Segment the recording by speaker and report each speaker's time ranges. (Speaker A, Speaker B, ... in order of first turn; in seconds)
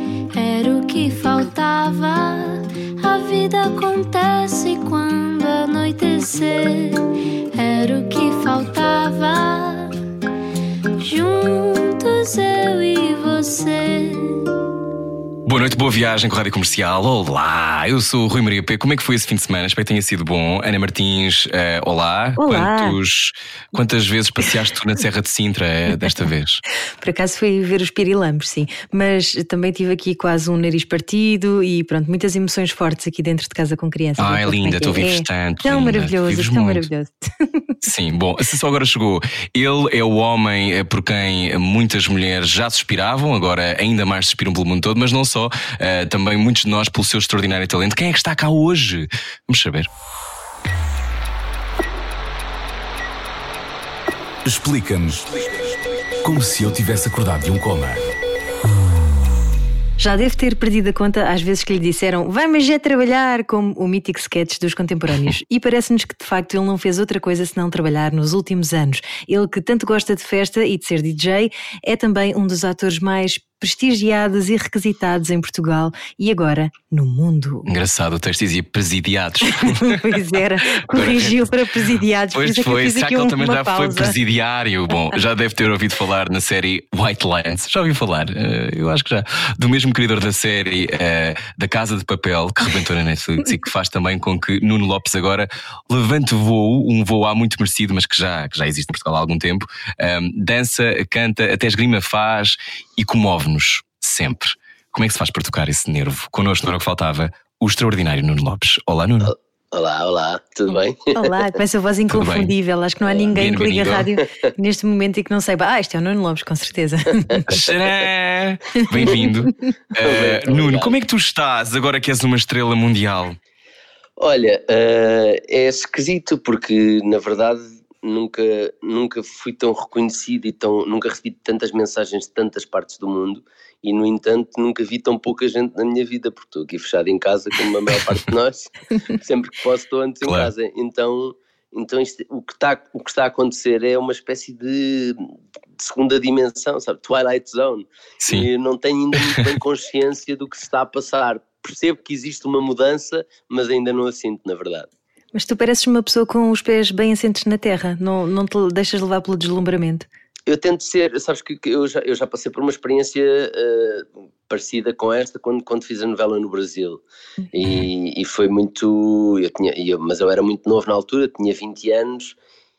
Speaker A: 0.3-9.9, 11.0-14.5
Speaker B: 15.4-26.6, 34.2-36.9, 37.8-49.9, 77.7-81.5, 82.3-109.3, 112.1-112.5, 113.3-114.1, 117.5-123.4, 140.2-140.5, 148.2-148.5
Speaker C: 22.4-23.0, 27.0-37.7, 60.0-77.7, 79.5-84.2, 111.2-117.5, 155.3-160.1
Speaker D: 54.5-58.0
Speaker E: 109.2-111.4, 113.1-113.3, 120.0-120.9, 124.2-154.9, 160.5-167.0, 167.5-172.4